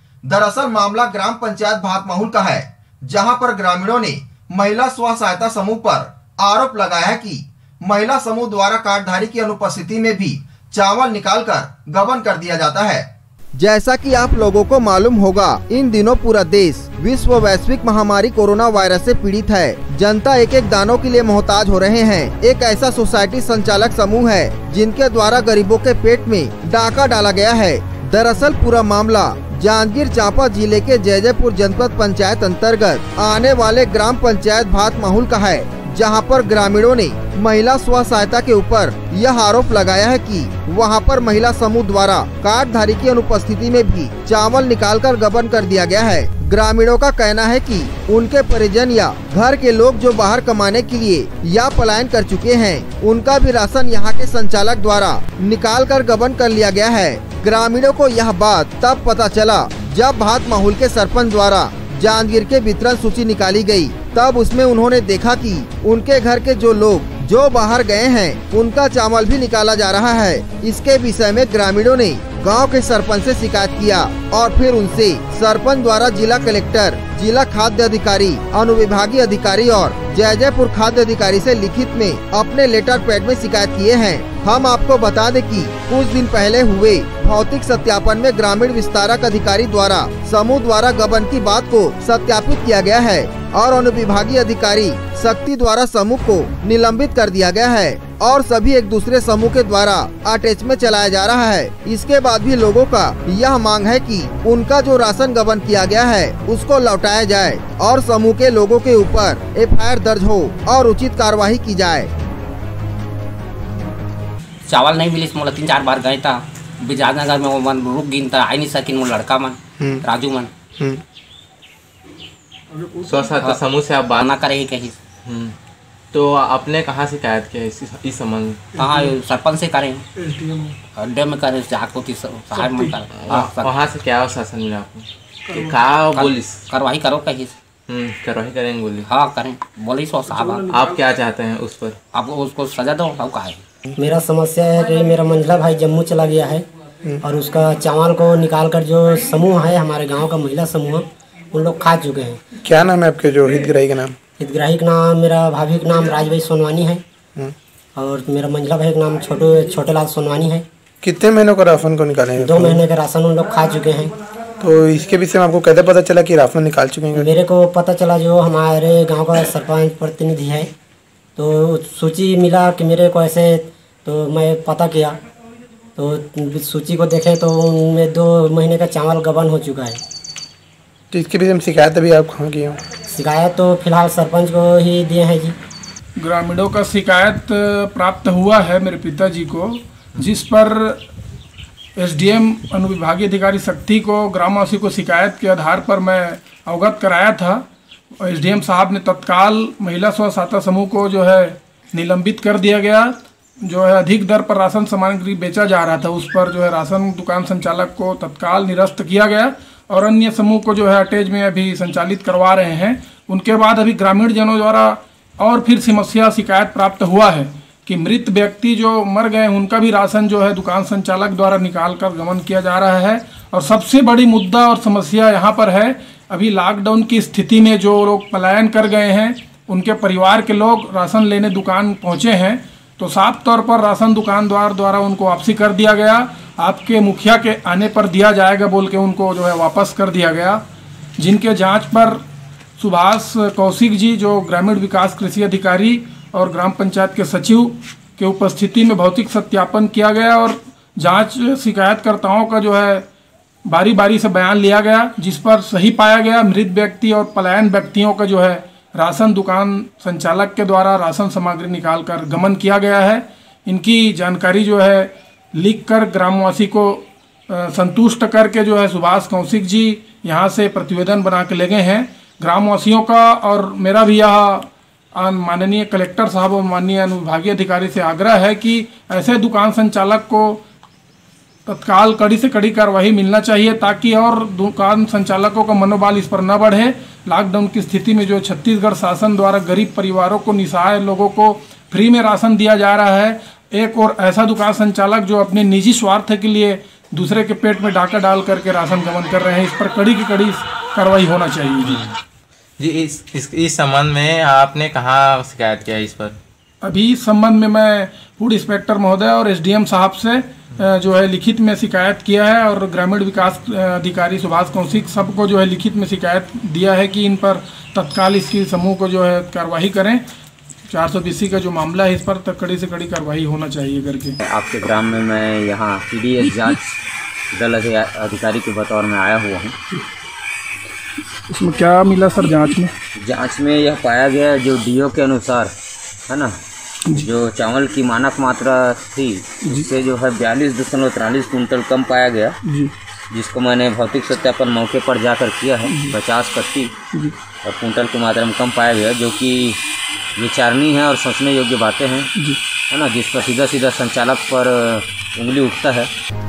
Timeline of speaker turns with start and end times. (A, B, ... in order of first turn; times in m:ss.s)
0:00.3-0:13.1 A
0:13.6-1:52.1 A
1:54.7-2:00.5 B
2:02.8-2:03.3 C
2:03.0-2:04.3 D
2:03.4-2:05.0 B
2:05.2-2:05.6 D
2:06.1-2:08.7 D
2:08.8-2:10.0 B
2:10.2-2:10.8 C
2:11.0-2:13.7 B
2:12.6-2:12.9 C
2:13.1-2:16.6 D
2:16.1-2:17.5 B
2:17.9-2:19.1 D
2:19.0-2:20.7 B
2:20.3-2:21.0 C
2:20.7-2:22.0 D
2:22.1-2:23.6 B
2:24.0-2:26.6 E
2:27.2-2:32.4 E
2:32.6-2:34.2 F
2:34.4-2:37.0 E
2:38.0-2:40.7 E
2:41.0-2:42.8 F
2:42.4-2:44.1 E
2:44.6-2:47.3 F
2:47.1-2:50.7 E
2:51.4-2:55.2 E
2:56.0-3:00.0 E
3:01.1-3:02.8 F
3:03.1-3:05.6 E
3:06.2-3:11.0 C
3:12.0-3:17.6 C
3:18.2-4:00.6 C
4:01.2-4:02.2 C
4:02.8-4:13.1 C
4:13.7-4:40.6 C
4:41.7-5:02.0 C
5:01.8-5:02.1 D
5:02.8-5:06.4 D
5:06.8-5:20.2 C
5:20.9-5:24.4 C
5:24.4-5:26.8 G
5:27.5-5:29.8 G
5:31.5-5:32.9 C
5:33.2-5:35.7 G
5:37.1-5:42.6 G
5:42.6-5:42.9 C
5:43.3-5:46.9 G
5:45.9-5:46.2 C
5:47.6-5:49.8 G
5:50.4-5:52.3 G
5:52.9-5:56.1 G